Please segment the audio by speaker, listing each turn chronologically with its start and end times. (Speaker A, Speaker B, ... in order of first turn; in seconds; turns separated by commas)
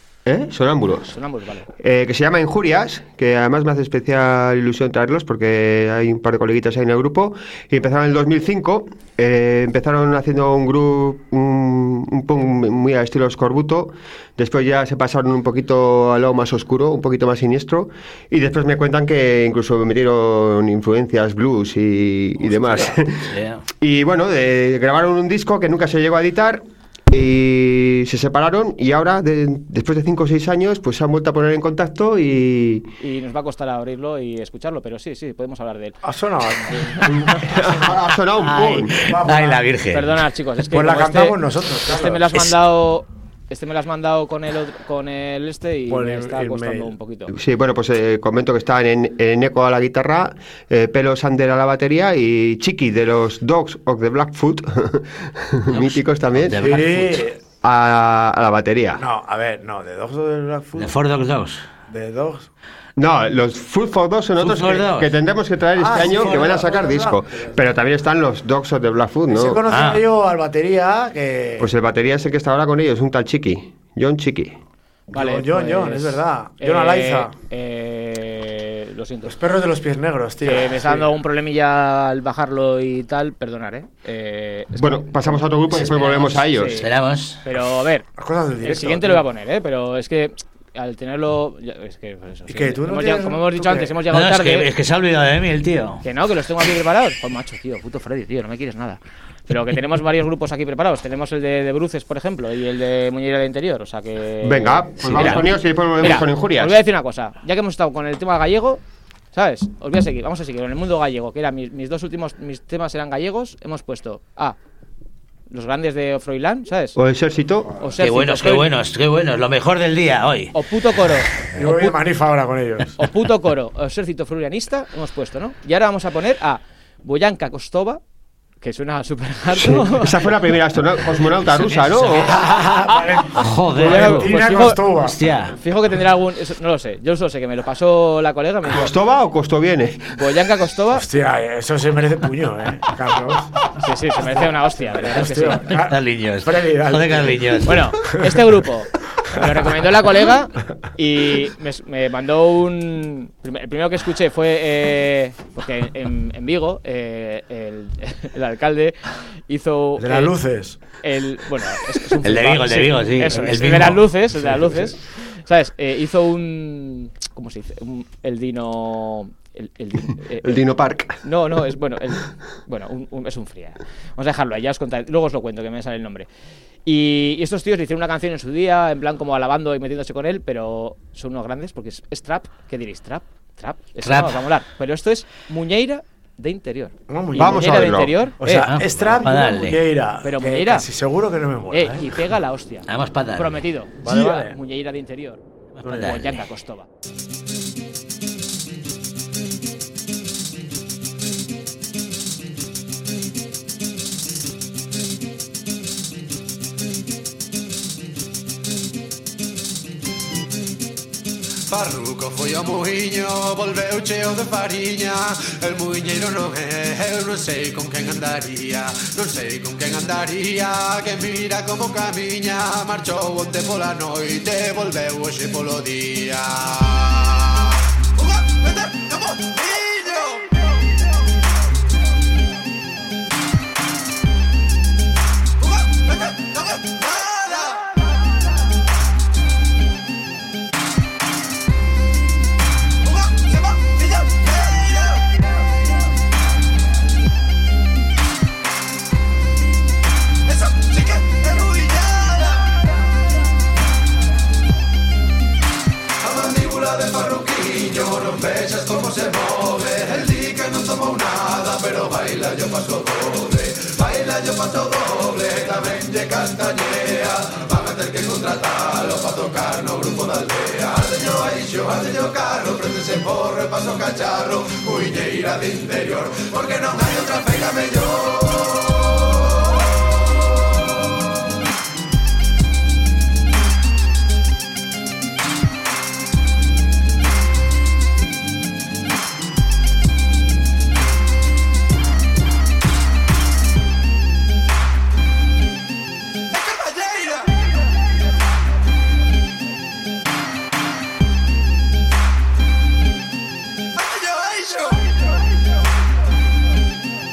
Speaker A: 0.3-1.1, Speaker B: 1.1-1.7, Speaker A: 1.8-32.9, Speaker C: 23.3-23.6, Speaker B: 33.0-36.0, Speaker D: 36.0-37.7, Speaker B: 36.6-37.4, Speaker A: 37.1-39.1, Speaker C: 38.4-40.1, Speaker D: 39.0-39.6, Speaker B: 39.9-47.3, Speaker D: 40.7-42.5, Speaker D: 45.9-46.9, Speaker A: 47.3-57.0, Speaker C: 55.7-57.2, Speaker D: 56.6-57.4, Speaker A: 57.6-59.0, Speaker D: 59.0-61.0, Speaker C: 60.8-61.7, Speaker D: 61.9-62.5, Speaker A: 63.0-69.6, Speaker C: 64.4-65.1, Speaker D: 65.8-67.6, Speaker D: 69.3-71.7, Speaker C: 69.7-70.1, Speaker A: 71.6-74.6, Speaker B: 75.1-79.4, Speaker D: 75.1-77.3, Speaker D: 79.3-81.1, Speaker B: 80.4-86.9, Speaker A: 84.8-86.8, Speaker C: 86.8-87.4, Speaker B: 87.4-88.1, Speaker D: 88.2-89.2, Speaker B: 88.6-94.7, Speaker D: 92.5-94.0, Speaker C: 94.1-96.0, Speaker B: 96.0-108.8, Speaker A: 104.4-106.8, Speaker B: 109.3-114.6, Speaker B: 115.5-117.0, Speaker A: 117.0-117.8, Speaker B: 117.8-118.8, Speaker C: 118.0-120.5, Speaker B: 120.5-122.0, Speaker D: 121.6-123.0, Speaker B: 123.0-128.0, Speaker B: 128.6-130.3, Speaker A: 129.5-132.4, Speaker C: 131.6-132.4, Speaker D: 132.3-135.2, Speaker C: 133.3-135.6, Speaker B: 133.8-134.8, Speaker B: 135.5-138.9, Speaker A: 138.7-140.1, Speaker B: 140.1-141.1, Speaker D: 140.9-143.5, Speaker B: 143.8-145.7, Speaker D: 144.2-147.7, Speaker C: 145.7-147.8, Speaker B: 147.7-160.4, Speaker D: 160.0-160.8, Speaker B: 160.9-170.6, Speaker C: 162.2-164.1, Speaker D: 163.3-163.6, Speaker D: 164.4-164.9, Speaker A: 170.4-171.2, Speaker B: 171.2-176.3, Speaker B: 176.8-188.7, Speaker C: 184.0-184.4, Speaker D: 187.1-192.2, Speaker A: 187.3-188.2, Speaker C: 188.6-189.8, Speaker B: 190.2-190.9, Speaker B: 191.7-196.9, Speaker C: 192.9-193.6, Speaker D: 194.0-194.6, Speaker C: 195.8-196.4, Speaker D: 195.8-196.2, Speaker E: 211.7-227.4, Speaker E: 228.2-230.5, Speaker E: 235.8-237.8, Speaker E: 243.2-245.2, Speaker E: 250.6-252.5, Speaker E: 256.2-278.4, Speaker E: 296.6-297.4, Speaker E: 304.0-305.0